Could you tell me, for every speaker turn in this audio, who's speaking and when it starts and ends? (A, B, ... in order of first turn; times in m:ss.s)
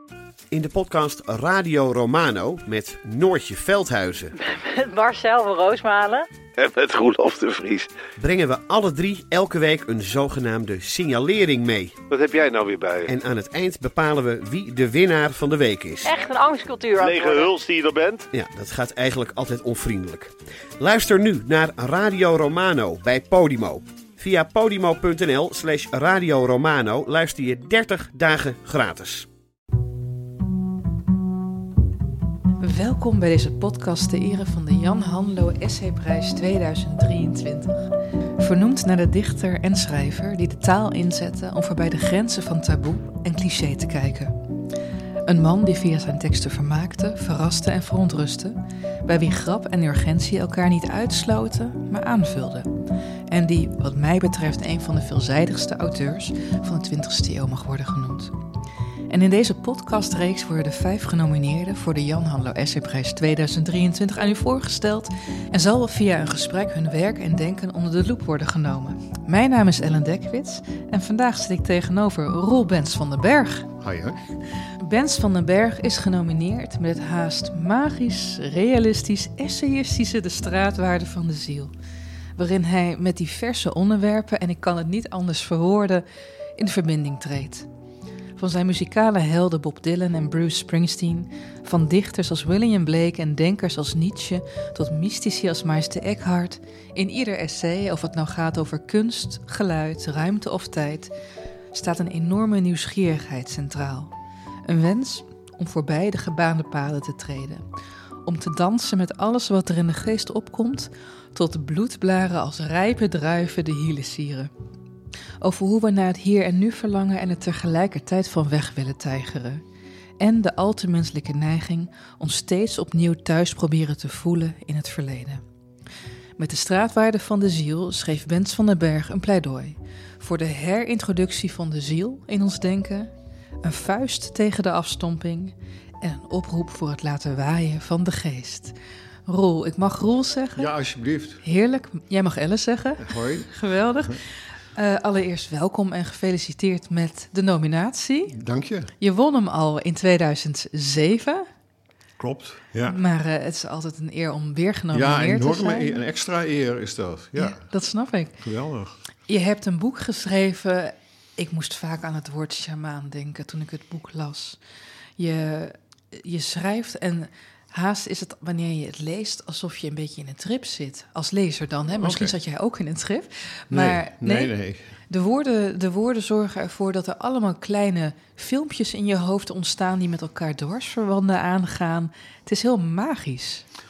0:00.5-0:04.4 A
0:04.4-0:06.3 B
0:06.6-0:07.9 C
0:08.2-0:12.0 A
0:12.1-0:13.1 C
0:13.0-0:16.1 A
0:16.0-0:17.6 B
0:17.0-0:18.2 C
0:18.3-0:29.3 A
0:32.6-0:44.3 D
0:45.2-0:52.7 D
0:53.3-0:58.4 D
0:59.1-1:13.7 D
1:13.8-1:14.2 E
1:14.6-1:21.7 D
1:22.4-1:26.0 D
1:26.6-1:27.7 D
1:28.4-1:41.1 D
1:41.7-1:44.1 D
1:44.6-1:47.6 D
1:48.2-1:54.5 D
1:55.4-1:59.6 D
2:00.2-2:05.4 D
2:06.4-2:13.1 D
2:13.6-2:18.7 D
2:19.2-2:20.7 D
2:20.6-2:21.4 E
2:21.4-2:28.4 D
2:23.0-2:23.5 E
2:28.3-2:28.9 E
2:29.0-2:31.5 D
2:32.2-2:33.0 E
2:32.9-2:36.0 D
2:34.9-2:37.6 E
2:37.4-2:38.4 D
2:38.4-2:39.0 E
2:39.3-2:44.6 D
2:45.2-2:54.5 D
2:51.9-2:52.3 E
2:53.7-2:54.9 E
2:55.1-3:03.6 D